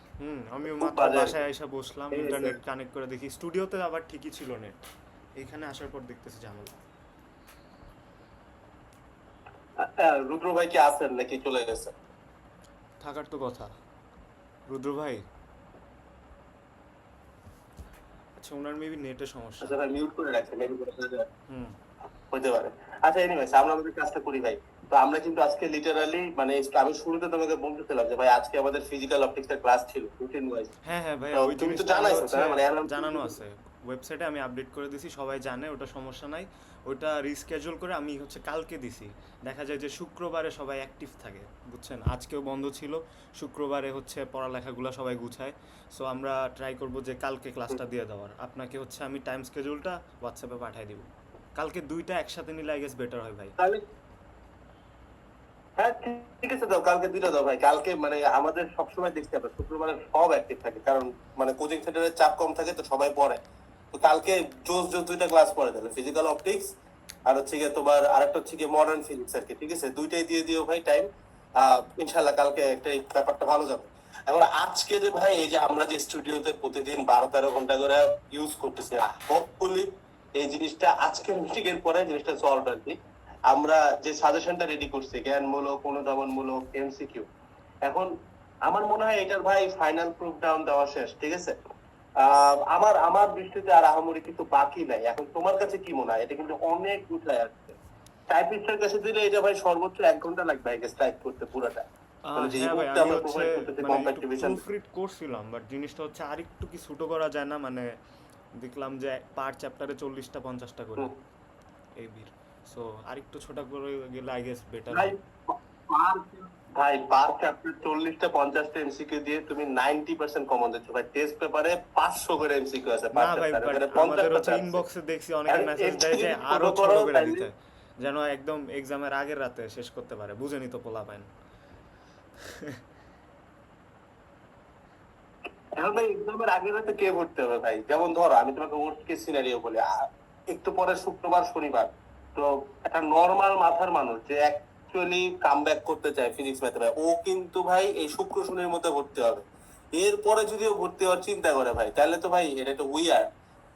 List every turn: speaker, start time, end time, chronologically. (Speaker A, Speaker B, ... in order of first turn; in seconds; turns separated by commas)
Speaker A: 0.2-4.8, Speaker B: 0.6-1.4, Speaker B: 2.1-2.6, Speaker A: 5.4-6.8, Speaker B: 9.8-11.9, Speaker A: 13.0-13.7, Speaker A: 14.7-15.2, Speaker A: 18.4-19.8, Speaker B: 19.6-21.3, Speaker A: 21.5-21.8, Speaker B: 22.3-30.7, Speaker A: 30.8-53.5, Speaker B: 31.3-33.4, Speaker B: 55.8-63.4, Speaker B: 63.9-66.7, Speaker B: 67.3-83.0, Speaker B: 83.5-87.3, Speaker B: 87.8-88.1, Speaker B: 88.7-91.5, Speaker B: 92.2-97.8, Speaker B: 98.3-104.6, Speaker A: 102.2-107.9, Speaker A: 108.6-111.1, Speaker A: 112.0-115.1, Speaker B: 114.9-124.8, Speaker A: 123.1-131.3, Speaker B: 125.5-127.5, Speaker A: 132.5-132.8, Speaker B: 135.8-139.9, Speaker B: 140.5-153.2